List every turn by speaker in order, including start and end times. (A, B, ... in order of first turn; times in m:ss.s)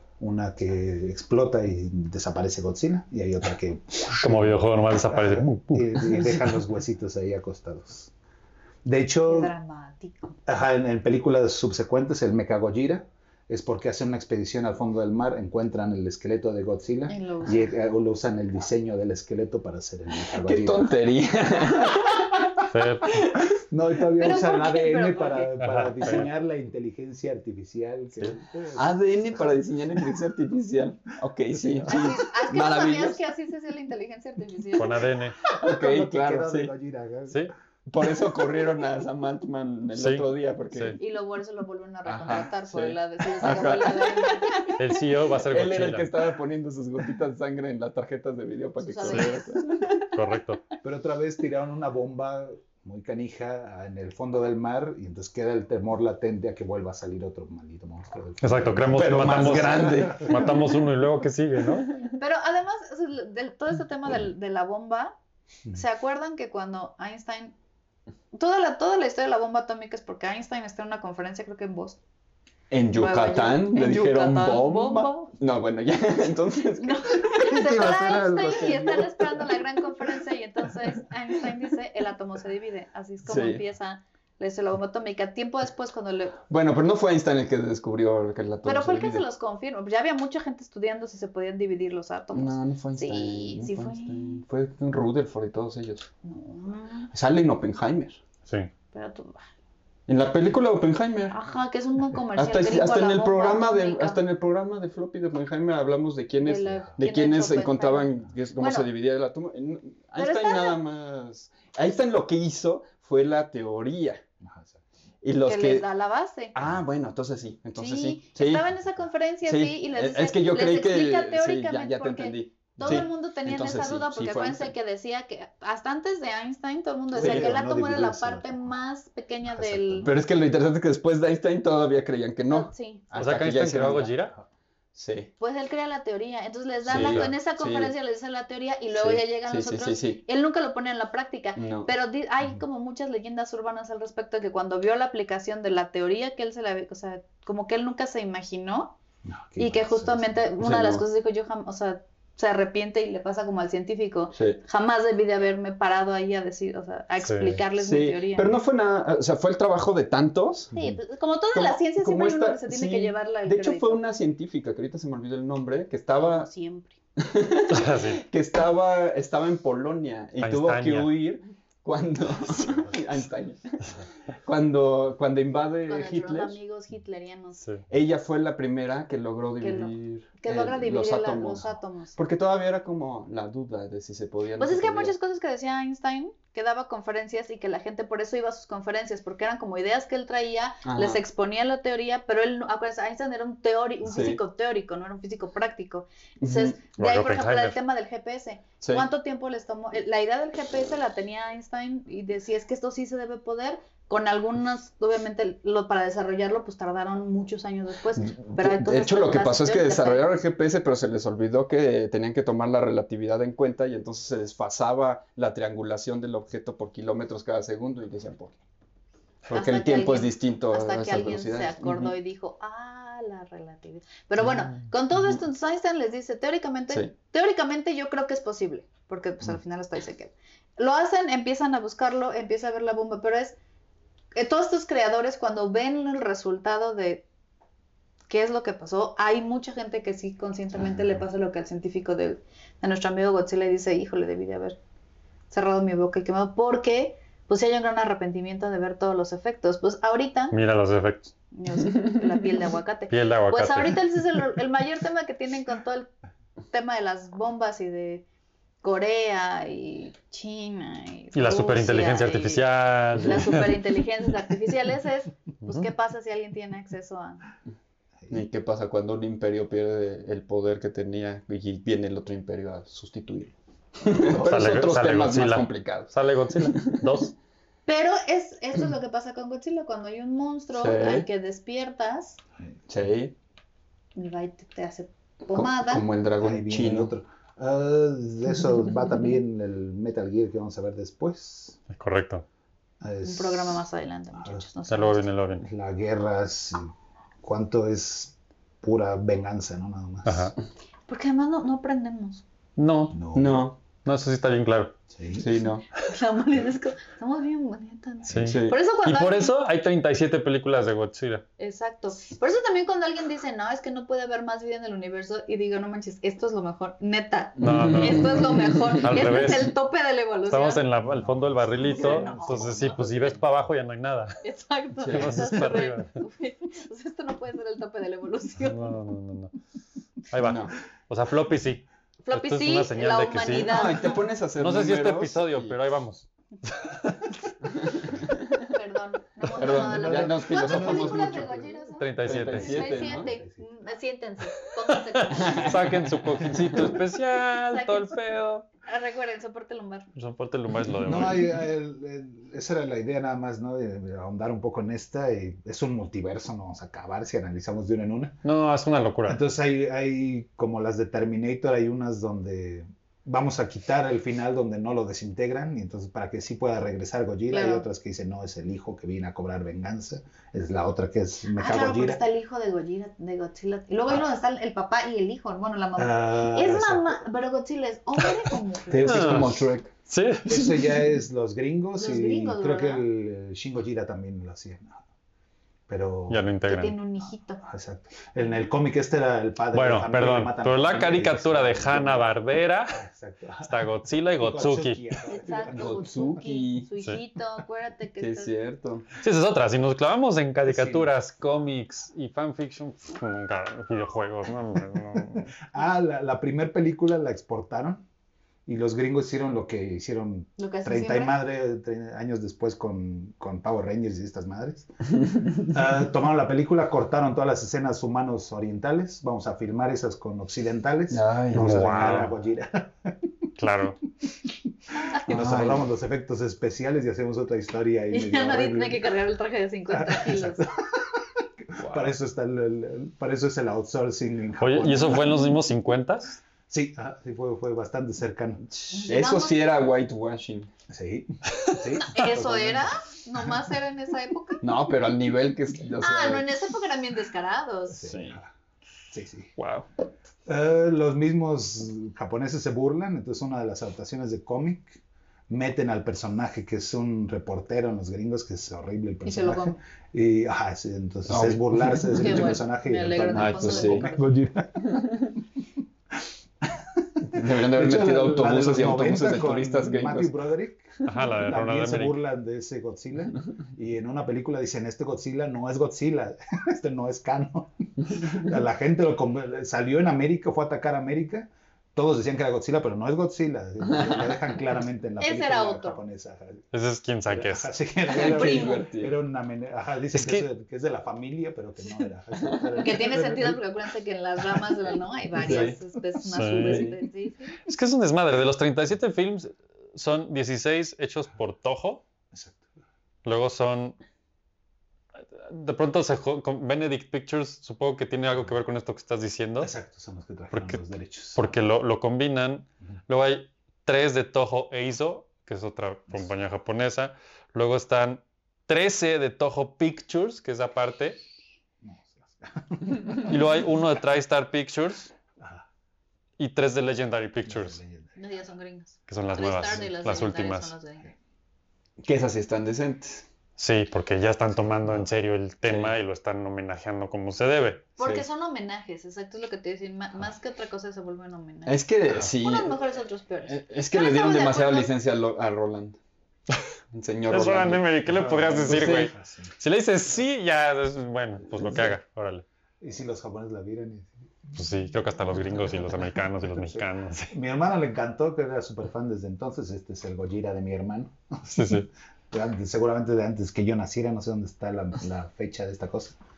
0:00.2-0:08.1 A
0:04.2-0:06.4 B
0:08.8-0:09.5 A
0:09.3-0:10.4 C
0:10.5-0:20.9 A
0:17.1-0:17.7 C
0:20.3-0:22.5 D
0:22.7-0:23.3 B
0:23.1-0:23.5 D
0:23.5-0:29.6 A
0:24.2-0:25.7 C
0:25.6-0:26.3 B
0:28.7-0:33.2 D
0:31.5-0:32.2 A
0:31.9-0:35.1 C
0:34.8-0:35.4 B
0:35.4-0:36.7 D
0:35.5-0:37.5 A
0:37.9-0:41.0 D
0:40.0-0:41.0 B
0:41.0-0:44.7 C
0:42.0-0:50.1 D
0:44.8-0:46.1 B
0:48.8-0:49.6 C
0:50.1-0:50.6 B
0:50.8-1:00.6 A
0:58.4-1:02.0 B
0:59.0-1:00.4 D
1:02.1-1:05.2 C
1:05.7-1:07.6 C
1:08.3-1:12.0 C
1:12.7-1:19.6 D
1:13.0-1:15.3 C
1:16.8-1:26.4 C
1:17.5-1:19.1 A
1:23.2-1:23.6 D
1:26.5-1:29.2 D
1:28.6-1:34.4 C
1:32.3-1:36.1 D
1:36.2-1:37.1 C
1:37.1-1:38.2 D
1:38.9-1:39.4 C
1:40.1-1:41.4 D
1:41.3-1:44.2 C
1:42.3-1:54.2 D
1:46.4-1:48.9 C
1:50.2-1:50.8 C
1:54.4-1:54.8 A
1:55.2-1:55.9 D
1:55.4-1:56.6 C
1:56.5-1:58.7 D
1:57.8-2:10.1 C
1:59.4-2:04.7 D
2:07.1-2:07.6 D
2:07.1-2:08.7 A
2:09.4-2:10.2 A
2:10.0-2:14.1 D
2:12.5-2:13.1 C
2:13.2-2:14.4 B
2:15.0-2:15.3 D
2:15.4-2:29.0 C
2:16.8-2:17.9 D
2:16.9-2:17.3 B
2:19.0-2:20.2 D
2:21.6-2:21.9 D
2:29.2-2:30.4 A
2:29.6-2:38.6 C
2:30.6-2:31.0 D
2:34.3-2:34.6 D
2:37.2-2:37.6 B
2:37.8-2:40.7 D
2:40.7-2:44.0 C
2:41.5-2:46.5 D
2:46.2-2:47.0 C
2:47.2-2:56.6 D
2:47.7-2:48.2 B
2:50.4-2:51.2 B
2:52.6-2:53.0 A
2:55.9-2:57.6 C
2:57.9-3:05.1 D
2:59.6-3:02.2 C
3:04.6-3:30.2 C
3:10.8-3:11.2 D
3:14.0-3:14.4 D
3:16.4-3:16.8 D
3:17.0-3:17.8 B
3:18.8-3:19.1 D
3:28.2-3:38.6 D
3:39.5-3:42.2 D
3:39.5-3:53.6 C
3:54.3-3:57.2 C
3:58.3-4:04.8 C
4:05.5-4:10.6 C
4:10.5-4:11.3 B
4:11.5-4:16.1 C
4:13.1-4:14.0 B
4:16.7-4:18.3 C
4:18.8-4:27.4 C
4:21.4-4:23.9 B
4:25.6-4:25.9 B
4:28.3-4:37.1 D
4:34.3-4:37.3 B
4:37.9-4:42.4 C
4:40.7-4:41.3 D
4:42.9-4:43.3 D
4:44.2-4:46.1 C
4:45.5-4:47.1 D
4:46.4-4:51.8 A
4:51.9-4:52.4 B
4:53.0-4:53.8 A
4:53.2-4:55.3 C
4:54.9-4:55.6 B
4:55.6-4:56.9 A
4:57.4-5:00.5 A
5:00.2-5:00.5 B
5:01.1-5:02.4 C
5:02.8-5:03.2 B
5:03.1-5:03.7 A
5:03.4-5:03.8 D
5:04.0-5:05.0 B
5:05.1-5:05.5 A
5:05.4-5:05.8 D
5:06.0-5:09.5 C
5:08.3-5:11.4 B
5:08.4-5:08.8 D
5:11.6-5:20.8 C
5:17.6-5:19.3 D
5:17.6-5:19.8 B
5:20.5-5:24.4 B
5:21.0-5:23.4 A
5:21.8-5:22.8 C
5:24.4-5:28.9 C
5:25.0-5:25.6 D
5:25.1-5:26.1 B
5:28.6-5:29.5 B
5:30.3-5:37.1 B
5:30.4-5:30.7 D
5:32.2-5:34.3 C
5:33.6-5:35.8 D
5:37.7-5:38.6 D
5:38.7-5:45.9 C
5:39.5-5:41.6 D
5:39.7-5:41.7 A
5:42.0-5:42.9 B
5:42.2-5:43.3 D
5:42.8-5:43.7 A
5:45.3-5:46.9 D
5:45.4-5:48.6 B
5:47.7-5:48.2 C
5:48.8-5:50.1 C
5:50.2-5:51.5 B
5:51.0-5:58.4 A
5:58.4-5:59.4 B
5:59.3-6:12.2 A
6:07.5-6:07.8 C
6:11.6-6:19.4 C
6:16.0-6:17.2 A
6:18.9-6:19.9 D
6:19.0-6:20.8 B
6:19.1-6:19.6 A
6:20.5-6:25.0 A
6:22.0-6:23.0 C
6:25.9-6:26.4 A
6:26.3-6:27.0 B
6:26.7-6:27.6 C
6:27.6-6:32.3 A
6:29.7-6:33.0 B
6:32.9-6:33.8 A
6:33.6-6:35.2 B
6:34.4-6:36.4 A
6:35.3-6:38.5 C
6:35.7-6:36.9 D
6:38.2-6:39.1 D
6:39.2-6:45.5 B
6:40.6-6:41.1 A
6:45.7-6:48.0 A
6:48.7-6:54.9 A
6:50.6-6:51.4 C
6:55.2-6:55.7 D
6:55.7-7:03.2 A
7:01.1-7:02.3 D
7:01.5-7:02.3 B
7:03.6-7:04.0 B
7:05.0-7:05.4 C
7:05.3-7:09.1 A
7:05.3-7:05.8 D
7:08.1-7:10.7 C
7:09.9-7:15.4 A
7:11.8-7:12.1 D
7:14.6-7:16.4 B
7:16.7-7:18.6 A
7:18.7-7:20.7 D
7:18.9-7:19.6 C
7:20.9-7:22.9 A
7:22.0-7:24.6 C
7:24.6-7:26.5 D
7:26.0-7:28.1 C
7:27.9-7:28.5 A
7:28.0-7:28.4 D
7:29.1-7:29.5 A
7:29.6-7:29.8 D
7:30.5-7:45.2 A
7:39.2-7:39.8 C
7:41.3-7:42.6 D
7:42.2-7:44.3 C
7:43.2-7:44.1 D
7:46.6-8:06.6 A
7:47.3-7:50.3 D
7:51.0-7:52.2 B
8:03.9-8:04.4 D
8:05.2-8:06.0 C
8:06.7-8:07.7 B
8:07.3-8:13.6 A
8:08.1-8:09.1 D
8:08.2-8:08.8 C
8:12.4-8:13.0 D
8:12.8-8:17.6 C
8:15.4-8:15.8 D
8:16.2-8:16.9 B
8:16.6-8:17.0 D
8:17.6-8:22.0 B
8:22.3-8:22.7 A
8:23.2-8:24.0 B
8:25.4-8:29.7 B
8:29.6-8:31.5 A
8:30.5-8:30.8 B
8:31.3-8:41.2 B
8:41.8-8:43.4 A
8:43.1-8:45.1 B
8:45.4-8:45.6 A
8:46.4-8:47.8 B
8:47.4-8:48.2 A
8:48.2-8:51.1 C
8:49.1-8:50.7 B
8:52.0-8:53.3 D
8:53.6-8:58.0 B
8:55.7-8:56.0 D
8:58.0-9:04.9 C
9:01.7-9:02.8 D
9:03.4-9:06.0 D
9:06.9-9:08.0 D
9:07.3-9:12.4 B
9:08.1-9:09.5 A
9:08.7-9:09.1 D
9:12.8-9:14.2 A
9:14.6-9:17.3 B
9:16.6-9:21.8 A
9:21.5-9:21.9 B
9:22.3-9:26.2 A